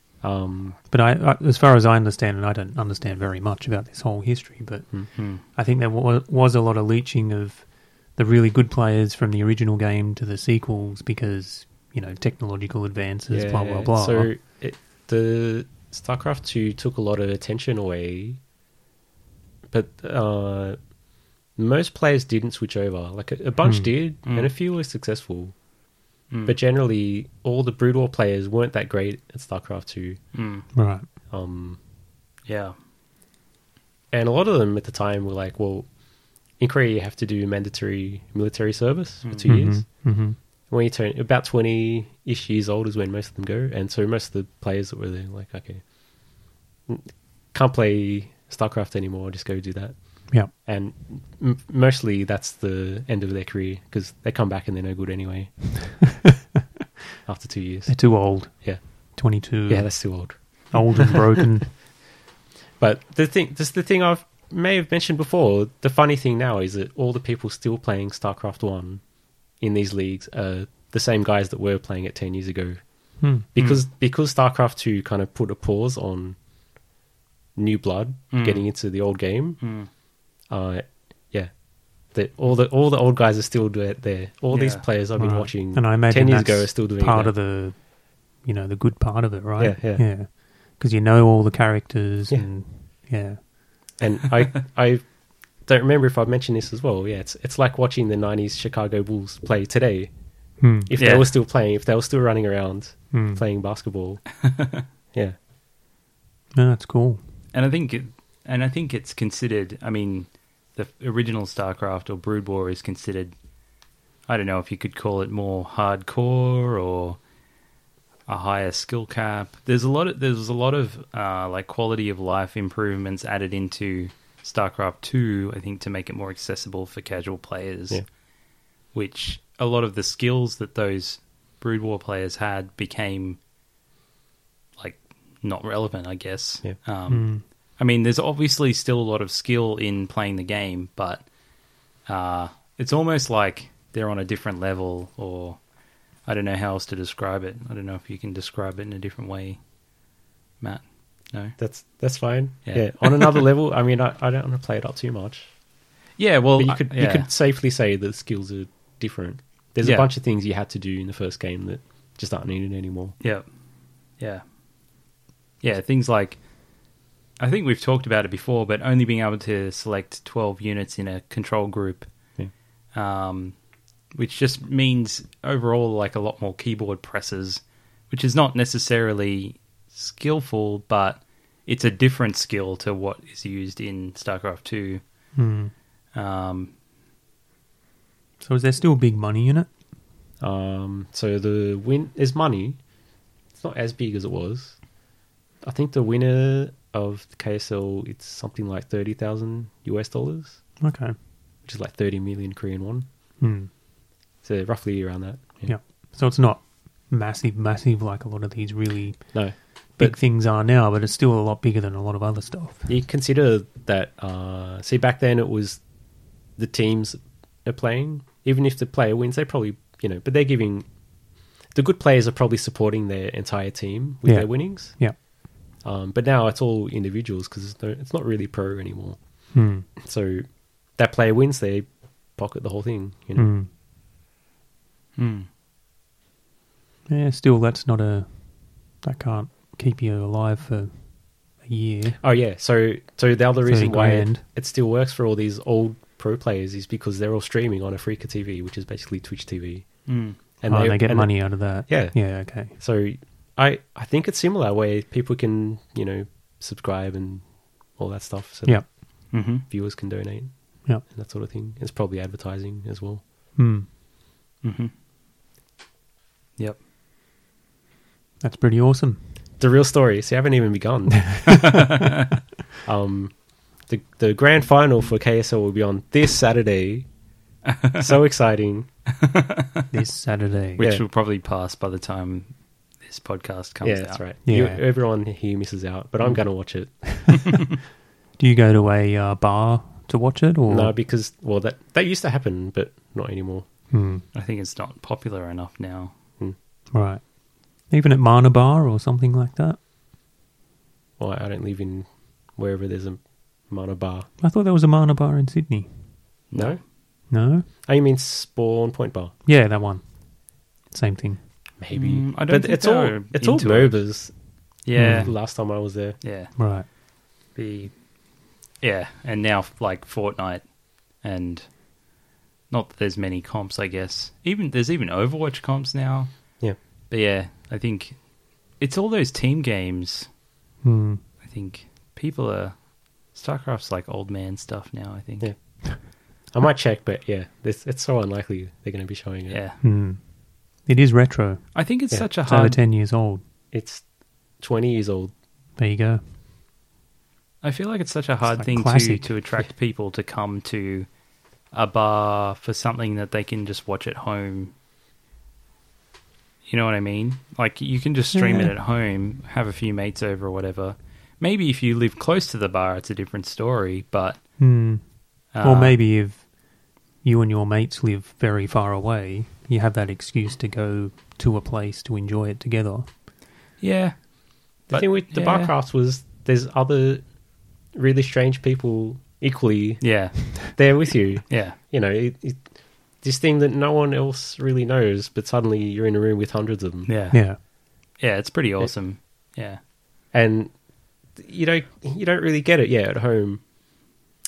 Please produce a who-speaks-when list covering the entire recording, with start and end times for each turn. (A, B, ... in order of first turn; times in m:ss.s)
0:00.2-0:00.8 A
0:00.9-0:14.3 B
0:05.1-0:05.4 C
0:13.3-0:18.4 A
0:19.7-0:20.9 A
0:21.5-0:25.5 A
0:23.6-0:23.9 B
0:24.2-0:24.5 C
0:26.3-0:26.6 C
0:26.4-0:30.3 A
0:30.3-0:30.6 C
0:30.7-0:31.0 B
0:31.3-0:31.8 A
0:32.4-0:32.7 C
0:34.1-0:35.9 A
0:36.6-0:45.9 A
0:39.2-0:39.5 C
0:39.4-0:40.4 B
0:46.9-0:56.2 A
0:57.2-1:01.4 A
0:57.9-1:01.8 B
1:02.8-1:09.0 A
1:09.6-1:16.4 A
1:13.2-1:13.4 B
1:13.6-1:13.8 C
1:17.6-1:19.8 A
1:18.3-1:18.7 C
1:19.6-1:19.9 C
1:20.5-1:27.3 A
1:24.5-1:24.8 C
1:25.2-1:33.5 B
1:29.6-1:30.0 A
1:34.0-1:40.1 A
1:40.6-1:40.9 B
1:40.7-1:44.4 A
1:41.0-1:41.3 C
1:43.1-1:43.4 B
1:44.4-1:44.8 C
1:46.5-1:47.2 B
1:47.5-1:53.3 C
1:54.3-1:57.2 C
1:58.3-2:08.1 C
2:08.9-2:13.4 C
2:14.8-2:21.3 C
2:17.1-2:17.4 B
2:22.0-2:25.6 C
2:26.2-2:29.6 C
2:30.6-2:31.6 C
2:31.6-2:35.5 A
2:32.6-2:33.4 C
2:36.2-2:37.3 C
2:36.6-2:43.2 A
2:39.8-2:40.1 C
2:43.2-2:43.5 C
2:44.2-2:44.4 C
2:45.6-2:46.4 C
2:47.4-2:52.1 C
2:52.9-2:53.6 C
2:54.1-3:05.0 C
3:05.3-3:05.7 B
3:06.1-3:06.7 C
3:08.4-3:09.7 B
3:10.4-3:12.8 A
3:13.5-3:14.8 A
3:15.6-3:20.6 A
3:20.8-3:21.1 B
3:21.6-3:23.0 A
3:23.4-3:23.7 B
3:24.4-3:25.7 A
3:25.6-3:32.9 B
3:29.3-3:30.2 A
3:32.9-3:35.8 A
3:36.6-3:40.9 A
3:41.7-3:45.1 A
3:44.2-3:45.2 B
3:45.8-3:49.2 A
3:49.5-3:49.9 B
3:50.0-3:53.5 A
3:53.3-3:53.7 B
3:55.2-3:55.5 C
3:57.1-4:02.2 B
4:02.2-4:23.2 A
4:03.6-4:04.4 B
4:10.1-4:10.4 C
4:10.7-4:12.8 B
4:19.3-4:19.6 C
4:23.6-4:23.9 B
4:24.6-4:24.9 C
4:28.4-4:29.2 B
4:29.6-4:31.8 A
4:31.4-4:31.8 B
4:31.5-4:32.2 C
4:32.8-4:37.1 A
4:37.7-4:38.1 C
4:38.0-4:38.9 A
4:39.2-4:39.8 C
4:39.9-4:40.8 B
4:40.8-4:44.2 C
4:43.8-4:47.6 A
4:44.4-4:44.8 B
4:48.4-4:50.9 B
4:50.7-4:53.7 A
4:53.9-4:54.2 B
4:54.3-4:56.1 C
4:56.9-4:57.2 B
4:57.9-4:59.8 B
5:01.2-5:04.3 A
5:04.4-5:06.1 B
5:06.5-5:06.8 C
5:06.5-5:07.3 A
5:07.3-5:07.7 B
5:07.8-5:09.3 A
5:09.4-5:11.4 B
5:11.8-5:14.3 A
5:11.9-5:14.1 C
5:14.8-5:15.5 C
5:14.9-5:16.2 A
5:14.9-5:15.3 B
5:16.2-5:16.5 C
5:16.6-5:16.9 B
5:17.5-5:17.9 C
5:18.8-5:21.7 C
5:22.7-5:28.2 C
5:28.8-5:30.3 C
5:30.8-5:31.2 B
5:31.4-5:35.5 C
5:35.4-5:39.6 A
5:39.5-5:39.8 C
5:39.8-5:40.3 B
5:40.8-5:41.8 B
5:41.7-5:42.8 C
5:42.4-5:43.4 B
5:43.7-5:45.3 A
5:45.8-5:46.2 B
5:47.6-5:51.1 C
5:48.5-5:49.3 B
5:51.7-5:54.7 C
5:56.7-6:04.4 C
5:58.3-5:58.7 B
6:04.6-6:06.5 B
6:05.5-6:06.0 C
6:07.2-6:13.1 B
6:13.8-6:15.7 C
6:14.9-6:17.4 A
6:17.9-6:27.1 A
6:20.0-6:20.9 C
6:21.5-6:21.8 C
6:27.0-6:27.6 C
6:27.3-6:27.6 B
6:28.2-6:29.8 C
6:30.3-6:30.7 A
6:31.3-6:33.6 A